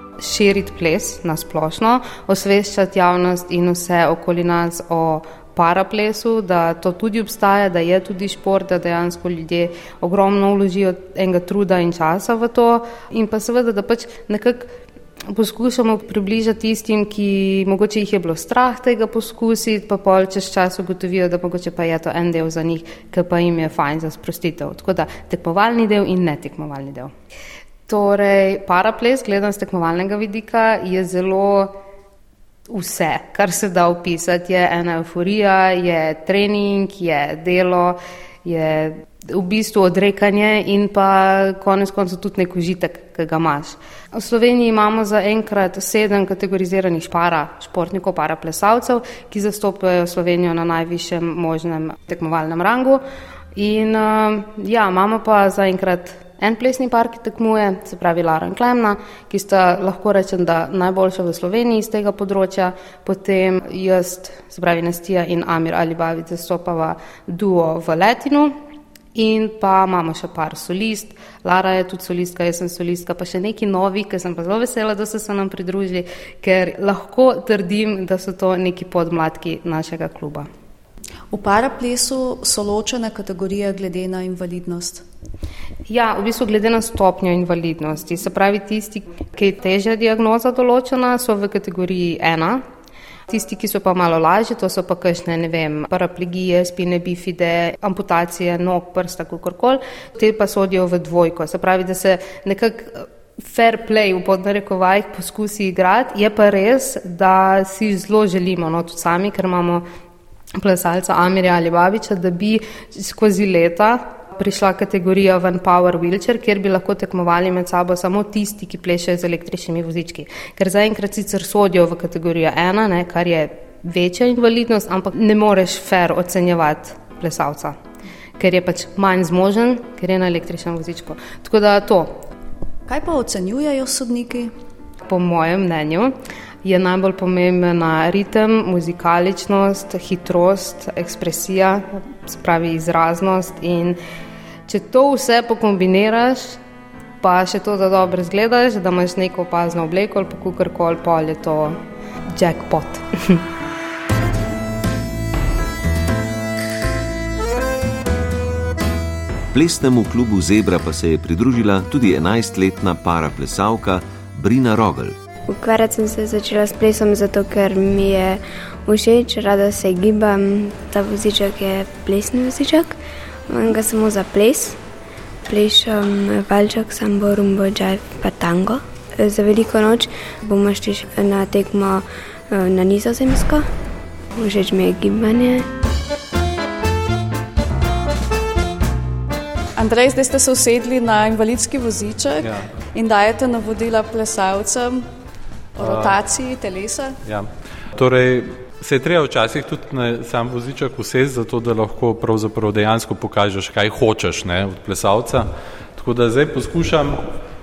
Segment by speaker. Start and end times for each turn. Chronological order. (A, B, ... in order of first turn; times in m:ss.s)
0:00.2-0:14.7 A
0:15.3-0:27.1 A
0:27.9-0:31.8 A
0:32.7-0:53.0 A
0:53.5-1:08.5 A
1:09.1-1:20.5 A
1:21.3-1:25.0 B
1:25.9-1:32.6 A
1:33.3-1:49.8 A
1:50.6-2:07.8 A
2:08.4-2:12.2 A
2:12.9-2:14.5 B
2:15.0-2:24.0 A
2:24.7-2:26.6 A
2:27.2-2:31.8 A
2:32.3-2:33.4 A
2:39.5-2:45.2 C
2:45.5-2:54.8 D
2:55.5-3:03.7 D
3:04.3-3:05.7 D
3:09.8-3:15.1 B
3:12.4-3:12.7 E
3:15.8-3:17.2 B
3:15.8-3:16.2 E
3:17.2-3:27.2 E